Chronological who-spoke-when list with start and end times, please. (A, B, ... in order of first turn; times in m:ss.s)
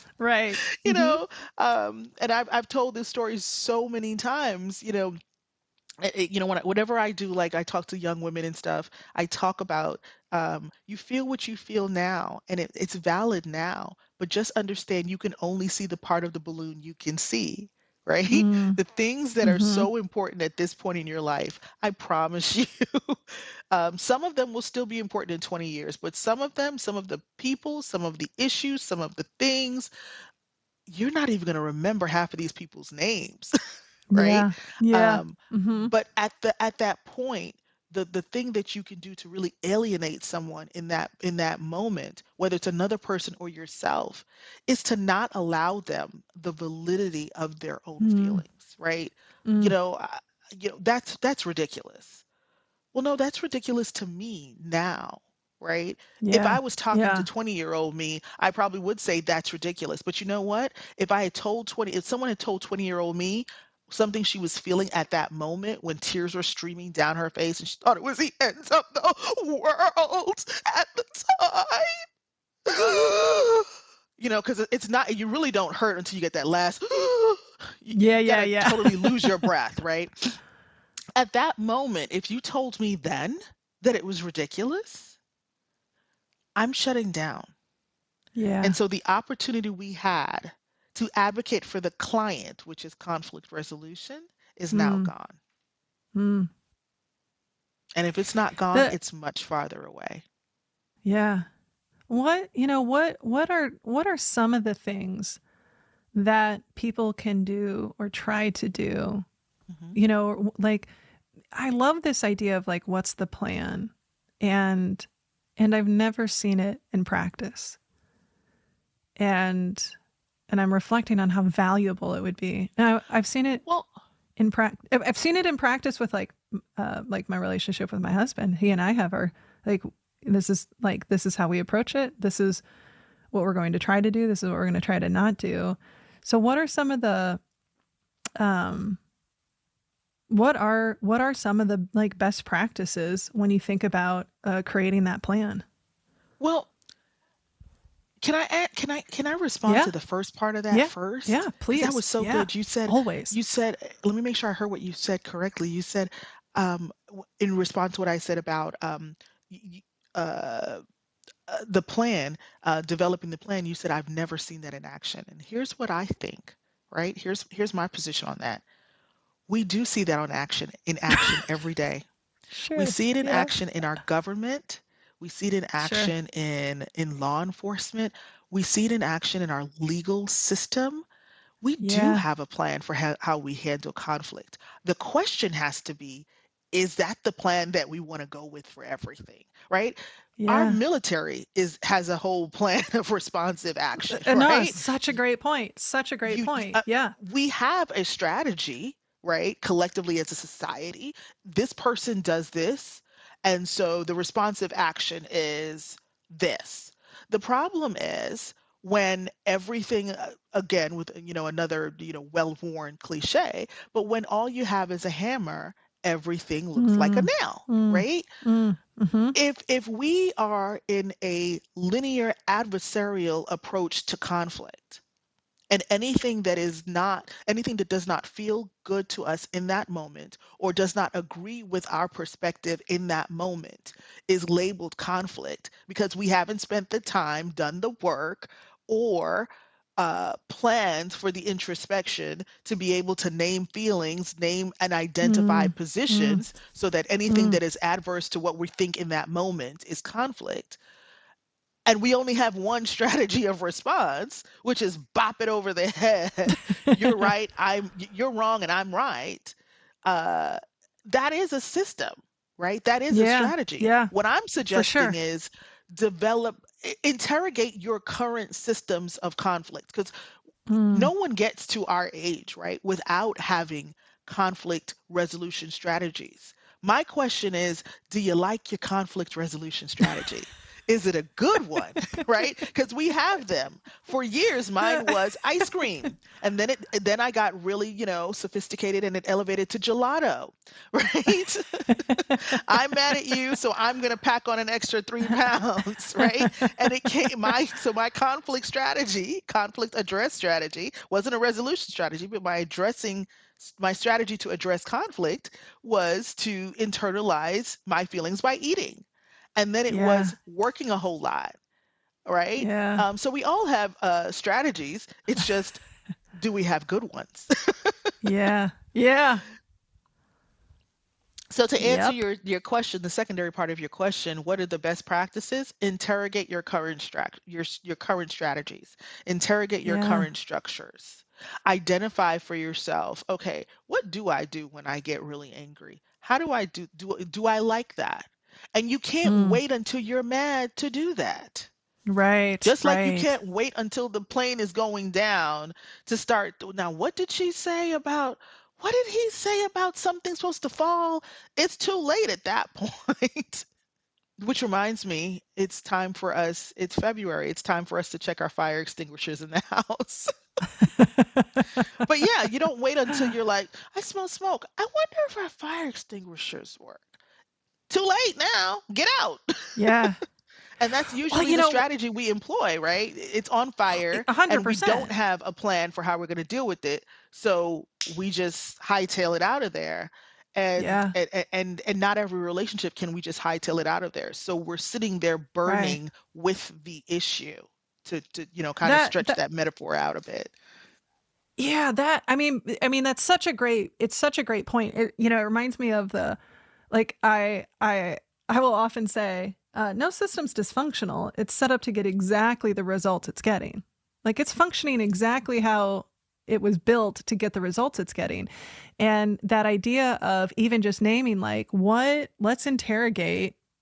0:00.2-0:01.2 A
0:00.7-0:05.1 B
0:06.0-0:29.9 B
0:18.3-0:18.8 A
0:19.4-0:19.9 A
0:30.9-0:33.6 B
0:34.1-0:35.9 A
0:34.1-0:52.2 B
0:48.0-0:48.4 A
0:49.4-0:49.7 A
0:52.9-1:11.9 B
0:56.2-0:57.3 A
1:12.6-1:13.6 B
1:14.2-1:20.3 B
1:17.9-1:19.4 A
1:21.2-1:25.2 B
1:26.6-1:27.5 B
1:28.4-1:28.8 A
1:28.6-1:35.4 B
1:34.7-1:35.1 A
1:36.1-1:36.5 A
1:38.0-1:40.2 B
1:41.0-1:41.5 A
1:42.1-1:45.4 A
1:46.1-1:49.2 A
1:49.7-1:50.0 B
1:49.9-1:50.9 A
1:51.5-1:57.8 A
1:59.2-1:59.9 A
2:00.5-2:03.6 A
2:03.6-2:03.9 B
2:04.4-2:12.6 A
2:13.3-2:17.4 A
2:18.4-2:19.0 A
2:20.3-2:25.6 A
2:26.4-2:26.7 B
2:28.2-2:40.8 B
2:29.7-2:29.9 A
2:30.7-2:33.4 A
2:41.5-2:48.6 B
2:49.5-2:52.0 B
2:51.1-2:51.4 A
2:52.5-2:53.6 A
2:52.7-3:01.0 B
2:55.8-2:56.1 A
3:01.6-3:14.8 B
3:01.8-3:02.2 A
3:10.4-3:10.8 A
3:14.0-3:17.2 A
3:16.2-3:38.3 B
3:36.8-3:39.4 A
3:39.3-3:45.0 B
3:45.7-4:10.8 B
4:05.2-4:06.4 A
4:07.3-4:07.6 A
4:11.9-4:30.1 B
4:16.5-4:17.3 A
4:23.1-4:24.1 A
4:24.6-4:25.2 A
4:30.7-4:31.1 A
4:30.9-5:11.6 B
4:41.7-4:42.5 A
4:44.8-4:45.7 A
4:51.9-4:52.4 A
4:56.2-4:57.1 A
5:09.9-5:10.3 A
5:12.2-5:15.8 B
5:12.6-5:13.0 A
5:16.3-5:18.1 B
5:18.2-5:19.4 A
5:21.5-5:41.7 B
5:21.8-5:22.2 A
5:29.8-5:30.3 A
5:39.2-5:39.6 A
5:42.1-5:43.3 A
5:42.6-5:53.6 B
5:54.4-6:00.3 B
6:00.7-6:01.9 A
6:01.9-6:07.2 B
6:07.9-6:10.0 B
6:09.8-6:10.2 A
6:10.8-6:30.5 B
6:11.3-6:11.8 A
6:14.1-6:15.1 A
6:20.8-6:21.1 A
6:25.6-6:26.0 A
6:28.8-6:29.4 A
6:31.6-6:36.4 A
6:36.9-6:53.6 A